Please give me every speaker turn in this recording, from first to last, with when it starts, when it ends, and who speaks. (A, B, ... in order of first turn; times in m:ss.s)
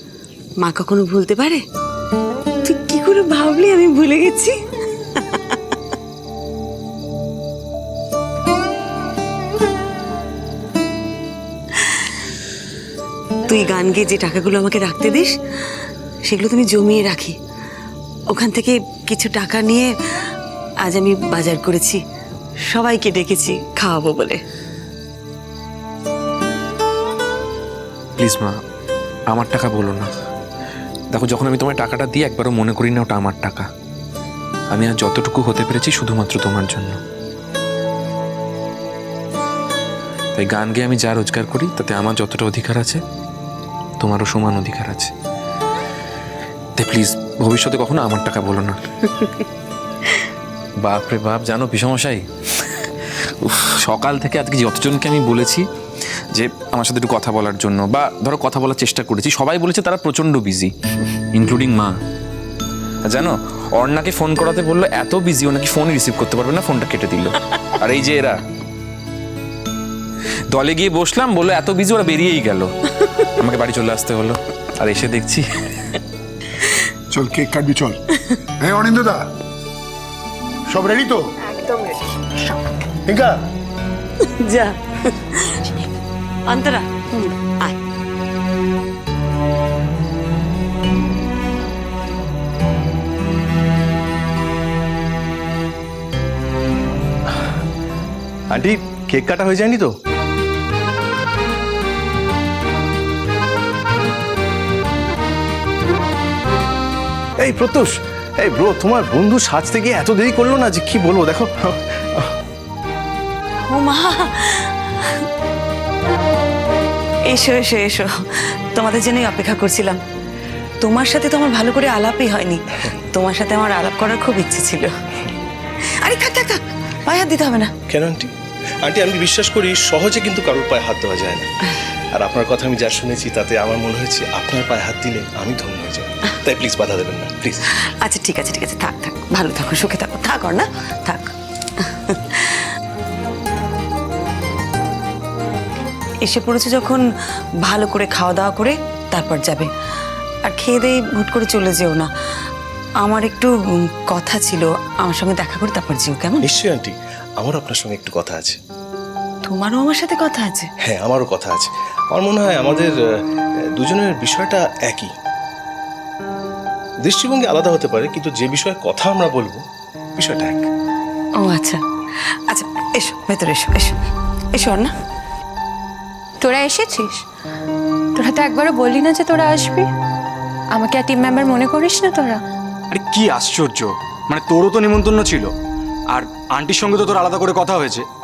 0:00.6-0:01.6 A
0:02.6-0:04.5 A
0:13.4-0:15.3 A
0:16.2-0:17.4 A
0:18.3-0:19.9 A
0:20.8-0:22.0 A
0:22.7-0:24.4 A
0:28.2-0:28.5 B
0:29.4-0:30.1 B
0:31.5-0:33.6 B
0:34.7-0:36.9 B
0:40.4-0:43.0 B
0:44.0-0:45.1 B
0:46.8-0:48.8 B
0:50.8-0:52.2 B
0:53.4-0:55.6 B
0:56.3-1:00.7 B
1:01.3-1:01.9 B
1:03.1-1:08.4 B
1:10.5-1:15.6 B
1:17.1-1:18.0 C
1:18.6-1:19.2 C
1:20.7-1:21.2 C
1:23.1-1:23.3 C
1:24.4-1:25.8 A
1:26.5-1:27.8 A
1:38.5-1:39.9 D
1:47.4-1:52.3 D
1:53.6-1:54.7 A
1:57.3-1:58.1 A
1:58.7-2:00.0 A
2:00.8-2:04.9 A
2:06.0-2:07.7 A
2:07.9-2:08.3 D
2:08.8-2:11.5 D
2:12.1-2:17.6 D
2:18.0-2:21.3 A
2:21.8-2:22.6 A
2:26.2-2:27.0 A
2:27.6-2:29.7 A
2:30.4-2:32.1 A
2:33.0-2:33.5 A
2:34.1-2:36.4 A
2:36.4-2:38.6 D
2:39.4-2:40.7 A
2:40.8-2:42.9 D
2:43.8-2:45.1 D
2:47.0-2:49.6 D
2:50.2-2:50.7 D
2:51.4-2:51.8 A
2:52.5-2:54.0 A
2:54.5-2:54.9 A
2:56.4-2:57.2 E
2:58.2-2:59.8 E
3:00.7-3:02.4 E
3:02.9-3:05.5 F
3:06.1-3:08.0 F